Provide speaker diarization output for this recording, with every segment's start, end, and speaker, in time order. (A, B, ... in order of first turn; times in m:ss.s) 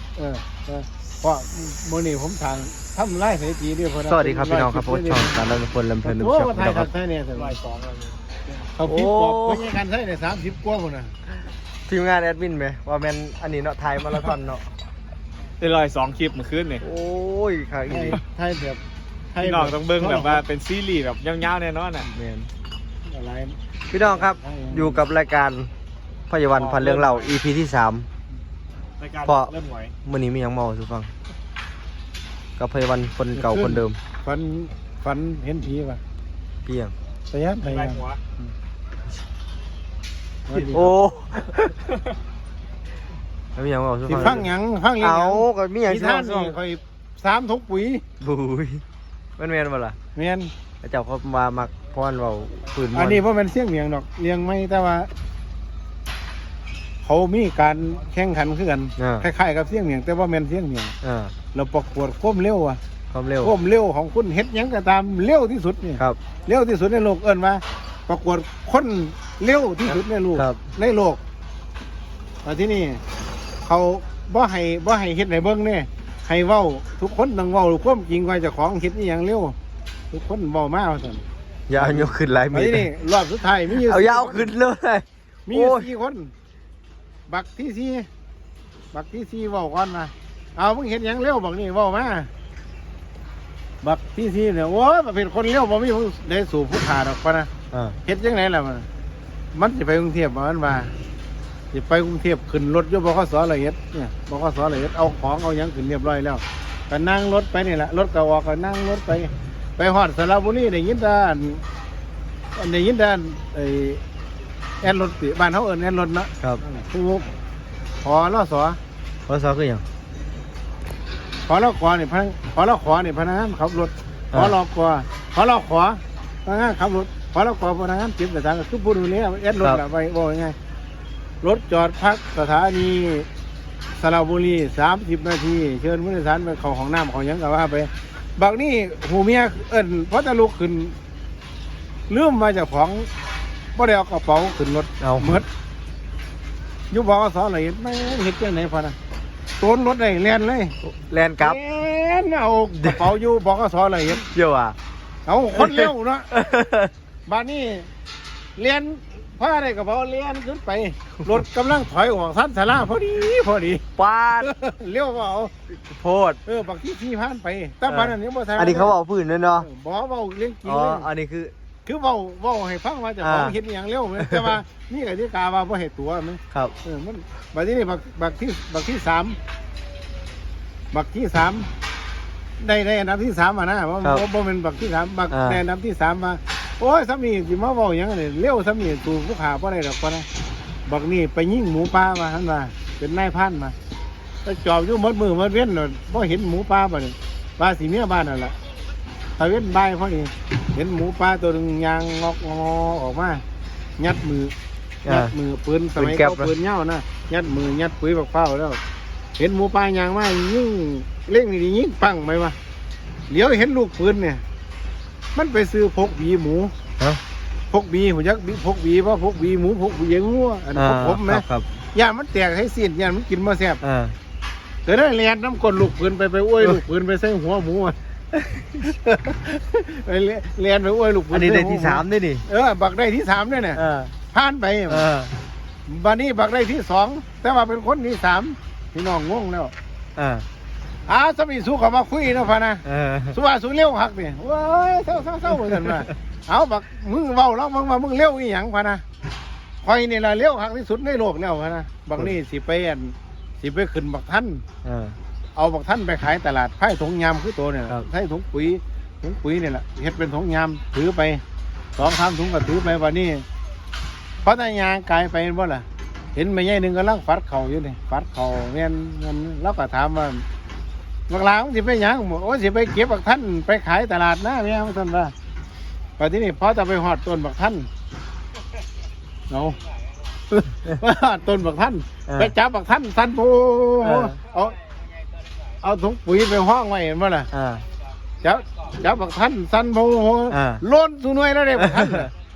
0:00.2-0:05.4 A
0:04.1-0:06.9 B
0:06.0-0:07.6 A
0:07.3-0:08.6 C
0:08.8-0:11.1 A
0:08.9-0:09.7 B
0:11.9-0:14.7 B
0:15.6-0:16.8 C
0:16.8-0:18.2 B
0:17.9-0:18.8 A
0:19.3-0:20.4 A
0:19.4-0:22.1 C
0:22.1-0:22.5 B
0:23.1-0:25.0 A
0:23.9-0:25.7 B
0:26.3-0:28.1 B
0:26.5-0:27.4 C
0:29.0-0:29.9 C
0:29.2-0:29.5 B
0:30.0-0:31.1 B
0:32.6-0:34.0 B
0:33.4-0:36.0 A
0:36.6-0:36.9 B
0:37.3-0:38.5 A
0:37.6-0:38.2 C
0:40.5-0:40.9 A
0:40.6-0:41.5 B
0:43.6-0:44.5 B
0:44.1-0:48.0 A
0:45.0-0:46.6 B
0:48.2-0:48.8 B
0:49.4-0:50.0 B
0:50.2-0:50.5 A
0:50.8-0:53.2 B
0:52.9-0:55.1 A
0:57.0-1:01.0 A
0:59.0-0:59.3 B
1:01.0-1:01.3 B
1:01.5-1:02.8 A
1:03.1-1:03.5 B
1:03.4-1:11.2 A
1:09.9-1:10.6 B
1:12.4-1:13.0 A
1:13.6-1:19.6 A
1:20.1-1:21.2 A
1:21.7-1:22.9 B
1:21.8-1:24.5 A
1:23.7-1:25.9 B
1:25.5-1:26.3 A
1:27.3-1:28.1 A
1:28.9-1:32.3 A
1:33.8-1:37.5 A
1:38.0-1:38.9 A
1:39.5-1:40.9 A
1:41.7-1:51.6 A
1:52.6-1:54.0 A
1:54.8-1:57.3 A
1:58.0-1:58.8 A
1:59.3-1:59.8 B
2:01.5-2:10.6 A
2:11.4-2:13.3 A
2:14.0-2:21.0 A
2:22.1-2:23.1 A
2:23.8-2:25.5 A
2:25.0-2:25.3 B
2:26.9-2:29.0 A
2:29.6-2:30.8 A
2:30.9-2:31.6 B
2:31.4-2:34.2 A
2:32.8-2:33.1 B
2:34.1-2:34.8 B
2:35.3-2:36.3 A
2:35.5-2:36.9 B
2:37.3-2:37.9 A
2:38.6-2:43.8 A
2:44.0-2:44.5 B
2:44.4-2:45.5 A
2:45.7-2:46.4 B
2:46.4-2:48.9 A
2:47.9-2:49.7 B
2:49.6-2:51.1 A
2:50.6-2:51.5 B
2:51.9-2:59.4 A
2:53.2-2:53.6 B
2:54.2-2:54.6 B
3:00.9-3:01.7 A
3:02.6-3:10.3 A
3:05.3-3:05.6 B
3:10.9-3:13.8 A
3:14.4-3:18.6 A
3:19.4-3:23.4 A
3:24.0-3:24.5 A
3:25.0-3:25.3 B
3:25.1-3:28.8 A
3:26.0-3:26.5 B
3:29.4-3:32.6 A
3:33.3-3:34.4 A
3:35.4-3:36.7 A
3:37.7-3:43.8 A
3:40.8-3:41.7 B
3:43.8-3:44.2 B
3:44.9-3:48.0 A
3:48.3-3:48.8 B
3:48.8-3:53.8 A
3:51.3-3:52.4 B
3:53.8-3:54.1 B
3:54.3-3:55.1 A
3:54.9-3:55.3 B
3:55.9-3:59.7 A
4:00.2-4:00.4 B
4:01.1-4:09.0 A
4:02.8-4:03.4 B
4:05.5-4:06.1 B
4:09.8-4:14.6 A
4:14.8-4:15.2 B
4:15.6-4:21.4 A
4:22.0-4:23.4 A
4:24.4-4:30.4 A
4:31.3-4:35.3 A
4:36.2-4:37.9 A
4:39.5-4:39.8 A
4:40.5-4:44.8 A
4:42.3-4:42.5 B
4:44.0-4:44.4 B
4:45.8-4:47.5 A
4:47.5-4:47.8 B
4:48.4-4:52.3 A
4:50.5-4:50.8 B
4:51.8-4:52.3 B